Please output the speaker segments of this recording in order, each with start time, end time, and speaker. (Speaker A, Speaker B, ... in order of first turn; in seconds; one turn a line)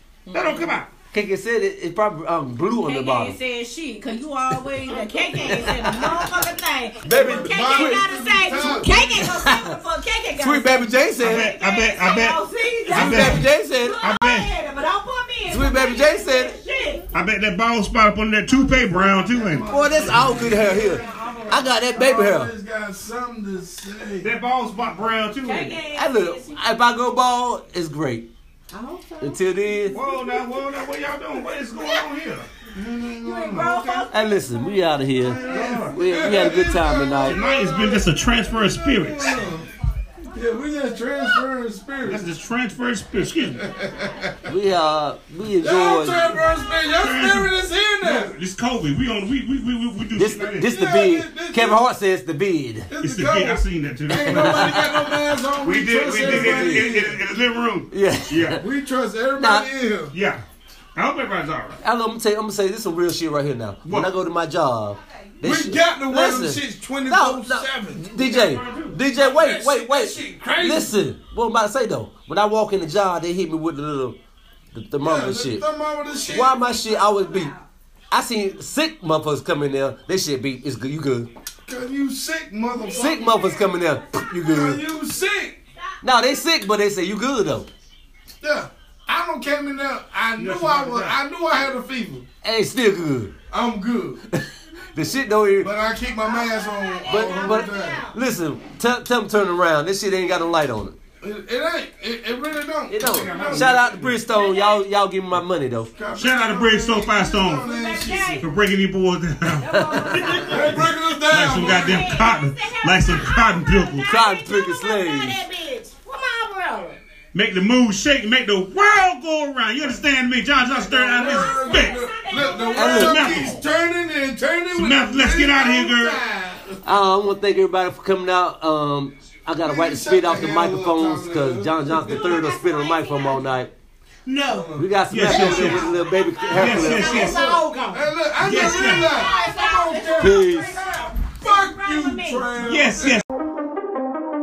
Speaker A: 0.3-0.8
Speaker B: 0.3-0.9
Speaker C: 1.1-3.4
Speaker A: 2.8-17.1
Speaker C: 5.3-6.3
Speaker C: 7.0-9.7
Speaker D: 7.1-9.3
Speaker C: 10.4-11.5
Speaker B: 11.2-14.5
Speaker C: 12.9-14.0
Speaker C: 15.5-16.5
Speaker B: 17.1-20.4
Speaker D: 19.3-21.1
Speaker C: 19.7-22.5
Speaker A: 20.4-21.8
Speaker D: 21.9-24.3
Speaker B: 24.2-25.8
Speaker A: 25.4-26.6
Speaker C: 25.9-28.3
Speaker A: 28.7-30.5
Speaker C: 29.2-30.0
Speaker B: 29.9-32.5
Speaker D: 32.7-33.6
Speaker B: 33.2-34.1
Speaker A: 33.2-34.3
Speaker C: 34.1-37.4
Speaker B: 35.2-36.0
Speaker D: 35.5-37.6
Speaker B: 37.3-39.5
Speaker A: 37.3-38.1
Speaker D: 38.9-39.7
Speaker D: 40.4-42.2
Speaker B: 42.0-43.7
Speaker D: 43.6-44.4
Speaker C: 44.5-46.4
Speaker D: 45.6-48.4
Speaker B: 46.8-50.7
Speaker C: 50.2-52.9
Speaker D: 50.6-51.8
Speaker D: 52.9-57.2
Speaker B: 53.0-55.0
Speaker C: 54.1-55.2
Speaker B: 55.6-58.6
Speaker C: 56.1-57.0
Speaker C: 57.9-58.6
Speaker D: 58.6-60.2
Speaker C: 59.4-59.7
Speaker B: 60.1-60.4
Speaker B: 61.0-61.8
Speaker C: 61.8-74.2
Speaker B: 63.9-64.1
Speaker D: 65.4-71.0
Speaker B: 68.2-69.0
Speaker C: 74.7-75.7
Speaker D: 75.0-76.6
Speaker C: 76.3-77.5
Speaker A: 76.3-77.7
Speaker C: 78.1-81.3
Speaker D: 81.7-83.1
Speaker A: 82.7-84.5
Speaker C: 82.9-84.8
Speaker D: 84.4-85.6
Speaker C: 86.0-87.7
Speaker D: 88.4-92.2
Speaker B: 90.4-91.2
Speaker C: 92.4-93.3
Speaker D: 93.5-94.2
Speaker C: 94.3-95.7
Speaker D: 95.6-98.0
Speaker A: 96.2-98.2
Speaker C: 97.1-101.0
Speaker D: 101.2-103.8
Speaker C: 102.9-105.9
Speaker B: 103.0-104.2
Speaker A: 104.2-104.9
Speaker D: 106.0-108.5
Speaker B: 106.2-107.7
Speaker A: 107.4-108.5
Speaker B: 108.4-114.1
Speaker A: 109.5-117.0
Speaker C: 109.7-110.4
Speaker D: 110.4-112.2
Speaker C: 114.1-115.4
Speaker B: 117.3-122.0
Speaker D: 120.6-126.8
Speaker A: 121.1-123.6
Speaker C: 122.7-123.5
Speaker B: 122.8-123.6
Speaker B: 124.7-126.2
Speaker C: 126.8-133.7
Speaker D: 129.6-132.4
Speaker A: 132.0-133.4
Speaker A: 134.3-134.7
Speaker D: 134.5-136.0
Speaker C: 134.8-137.3
Speaker B: 135.1-135.9
Speaker A: 135.2-142.6
Speaker B: 136.5-137.6
Speaker D: 136.6-143.2
Speaker B: 138.4-139.2
Speaker C: 140.2-140.8
Speaker B: 142.6-143.2